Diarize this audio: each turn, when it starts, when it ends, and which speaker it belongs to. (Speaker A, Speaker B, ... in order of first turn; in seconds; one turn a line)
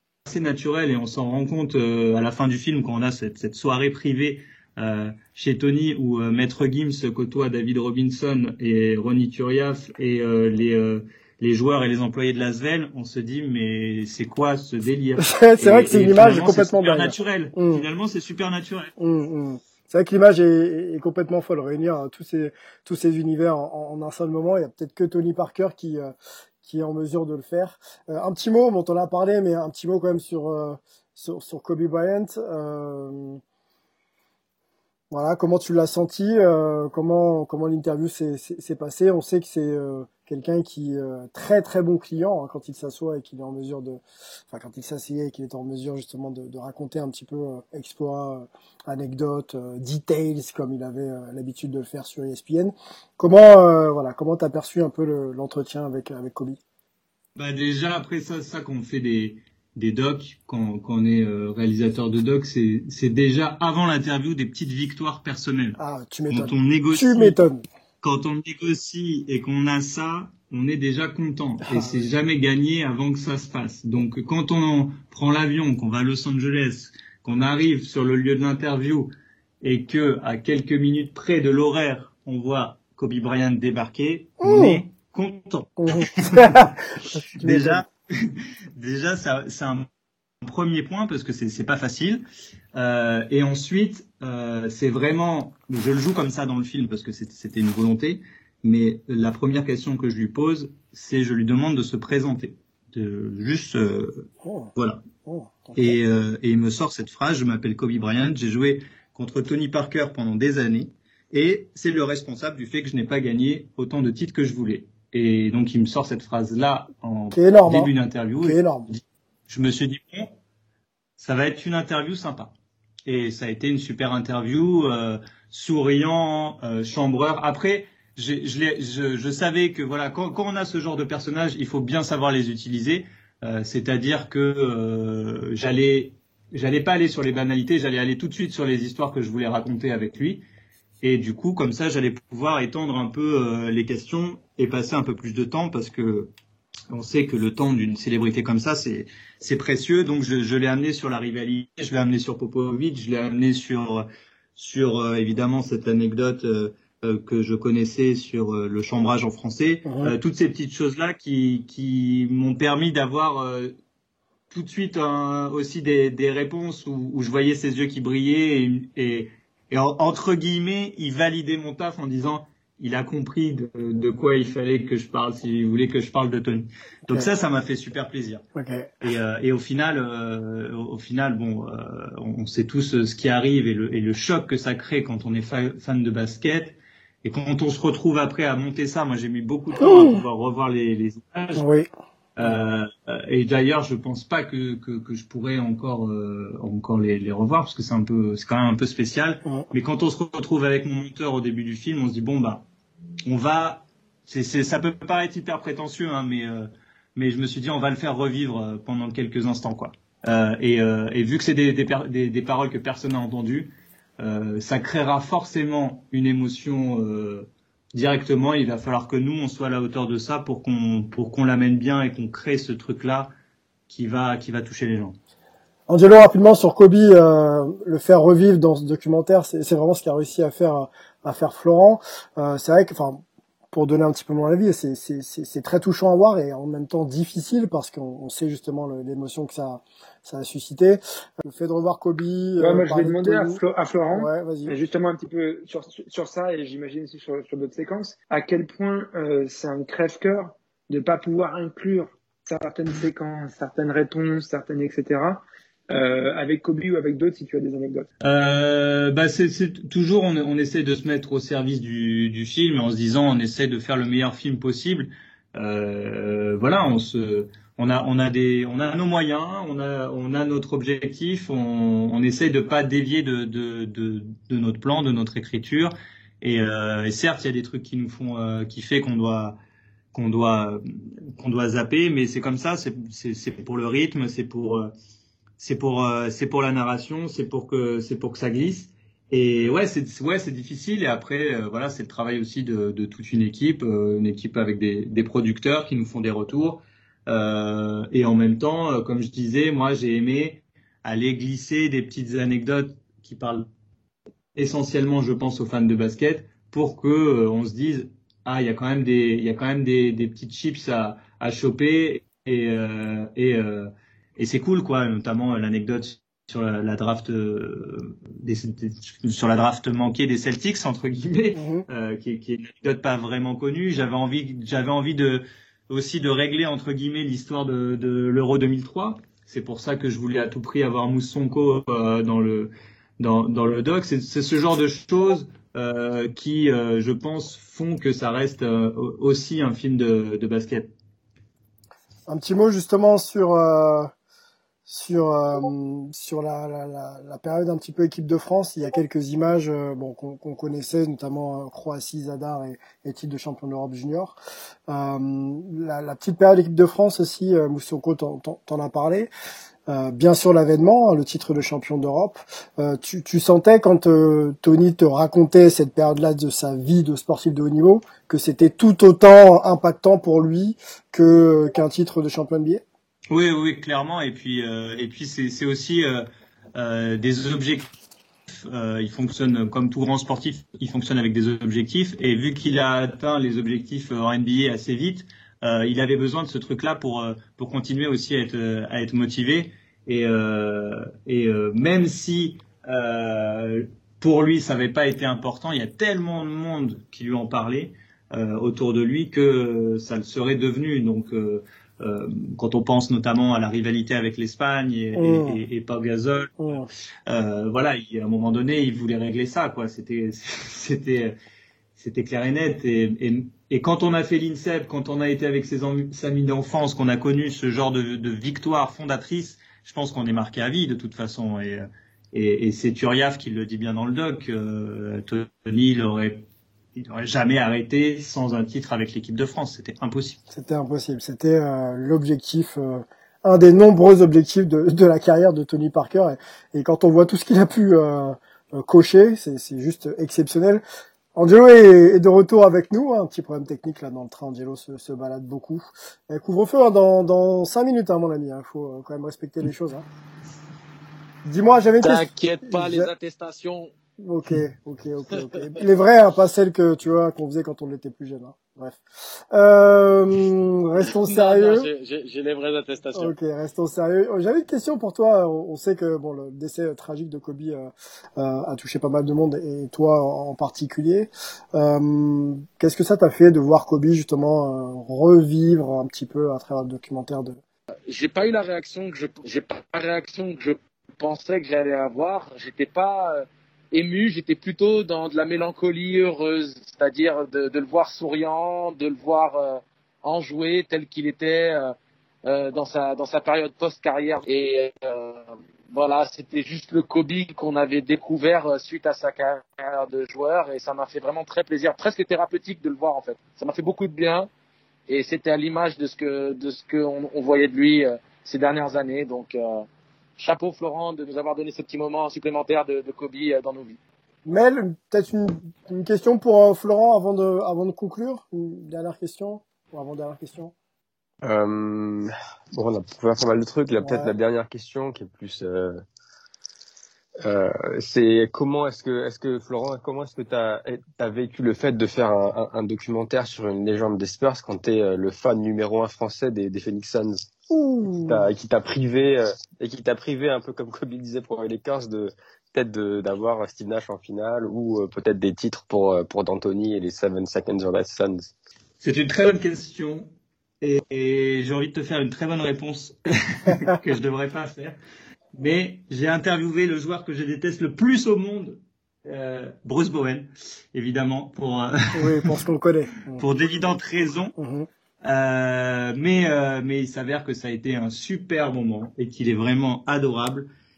Speaker A: 0.3-18.9
Speaker B: 15.2-17.9
Speaker B: 19.0-33.4
Speaker B: 35.1-56.6
Speaker A: 57.4-65.8
Speaker B: 65.8-67.6
Speaker A: 66.3-67.4
Speaker A: 68.0-79.1
Speaker B: 71.7-72.0
Speaker A: 79.6-86.6
Speaker B: 84.4-84.8
Speaker B: 85.8-87.8
Speaker A: 87.4-89.9
Speaker A: 90.4-92.2
Speaker A: 92.8-105.0
Speaker B: 104.5-104.7
Speaker B: 105.3-106.0
Speaker A: 105.8-120.3
Speaker B: 117.3-118.9
Speaker A: 121.2-122.5
Speaker A: 123.1-140.4
Speaker A: 141.0-146.3
Speaker A: 146.9-163.7
Speaker B: 159.9-160.1
Speaker A: 164.5-178.4
Speaker B: 178.6-178.9
Speaker A: 179.0-191.6
Speaker B: 189.8-190.2
Speaker B: 191.6-191.9
Speaker A: 192.4-202.7
Speaker A: 203.3-223.3
Speaker A: 223.9-225.2
Speaker B: 225.9-244.7
Speaker C: 242.6-258.1
Speaker A: 258.2-279.6
Speaker A: 280.1-280.8
Speaker A: 281.4-284.9
Speaker A: 285.6-303.7
Speaker A: 304.6-340.9
Speaker B: 321.6-321.9
Speaker B: 342.3-344.1
Speaker B: 344.9-354.4
Speaker B: 354.9-359.3
Speaker B: 359.9-372.8
Speaker A: 373.3-377.9
Speaker A: 378.6-406.6
Speaker B: 405.2-405.6
Speaker B: 406.6-406.9
Speaker A: 407.3-411.4
Speaker A: 412.0-430.4
Speaker B: 430.5-440.8
Speaker B: 441.4-450.1
Speaker B: 451.4-453.1
Speaker D: 452.0-453.9
Speaker B: 454.2-461.9
Speaker D: 461.0-463.3
Speaker B: 463.1-477.6
Speaker D: 478.1-504.5
Speaker D: 505.1-509.9
Speaker D: 510.4-514.0
Speaker B: 514.5-520.7
Speaker E: 521.4-526.0
Speaker B: 524.0-524.3
Speaker E: 527.4-537.5
Speaker B: 537.7-538.5
Speaker E: 538.2-548.5
Speaker A: 549.0-550.3
Speaker A: 550.8-555.0
Speaker A: 555.5-562.6
Speaker B: 562.1-563.4
Speaker A: 563.4-564.5
Speaker B: 564.6-564.9
Speaker A: 565.2-570.7